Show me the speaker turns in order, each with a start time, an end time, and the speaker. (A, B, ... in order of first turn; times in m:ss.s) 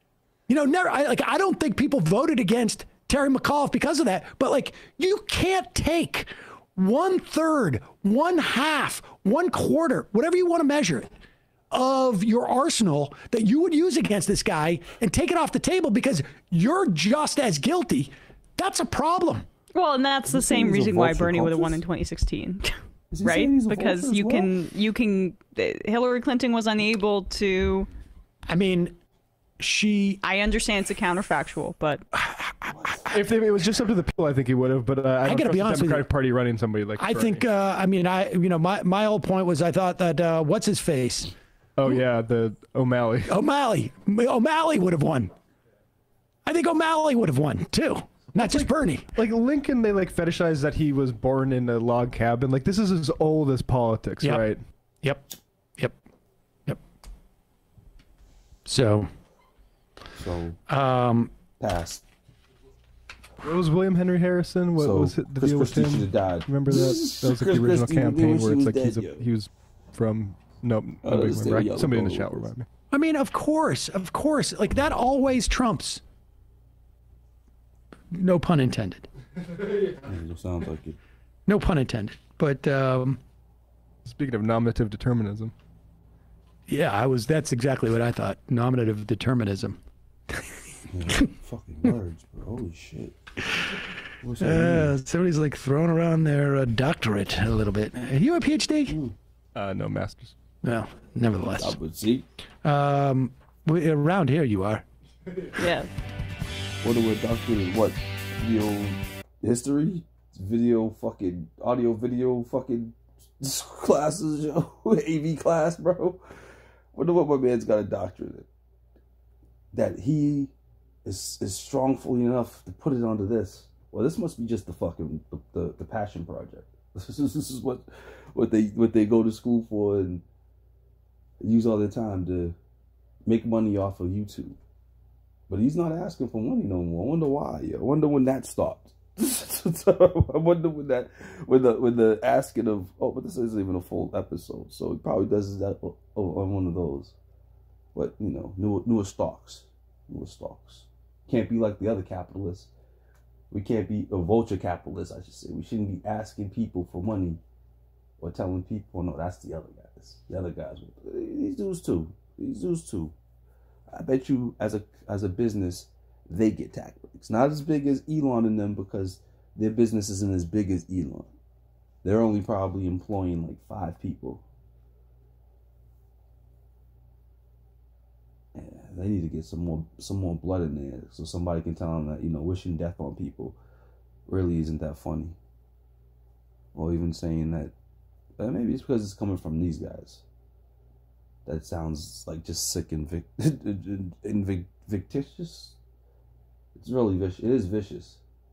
0:00.5-0:11.1 A
0:11.7-0:19.5 A
0:19.7-0:27.9 B
0:20.3-0:21.8 C
0:23.1-0:24.5 C
0:28.5-0:29.0 A
0:29.6-0:30.2 A
0:30.2-0:32.0 B
0:32.1-0:33.3 A
0:32.7-0:33.2 C
0:33.1-0:37.4 D
0:35.2-0:36.1 A
0:37.0-0:41.3 A
0:41.8-0:43.3 D
0:43.3-0:45.3 A
0:46.5-0:49.1 A
0:48.4-0:54.6 D
0:54.2-0:54.5 A
0:55.0-0:56.0 A
0:58.7-0:59.1 A
1:00.2-1:00.6 C
1:00.7-1:01.3 A
1:01.6-1:02.0 C
1:03.4-1:12.7 D
1:04.8-1:09.3 C
1:11.0-1:12.5 C
1:12.9-1:16.0 A
1:18.1-1:19.1 A
1:20.0-1:21.0 C
1:21.5-1:23.2 A
1:24.0-1:25.5 D
1:26.7-1:29.8 A
1:30.9-1:33.2 C
1:34.2-1:35.0 C
1:34.4-1:39.0 A
1:38.9-1:39.1 C
1:39.6-1:40.4 D
1:40.6-1:41.8 A
1:41.6-1:42.3 C
1:42.6-1:44.8 A
1:45.6-1:45.9 B
1:46.8-1:56.2 C
1:56.9-1:58.5 C
1:59.7-2:00.5 C
2:01.0-2:10.2 C
2:11.4-2:12.6 C
2:13.3-2:14.6 C
2:15.5-2:27.2 C
2:27.9-2:32.7 C
2:33.5-2:37.4 C
2:38.2-2:43.1 C
2:43.9-2:51.3 C
2:52.0-2:54.4 C
2:58.6-3:03.6 C
3:04.3-3:05.4 C
3:06.7-3:07.7 C
3:08.4-3:10.2 C
3:11.5-3:15.8 C
3:16.8-3:18.2 C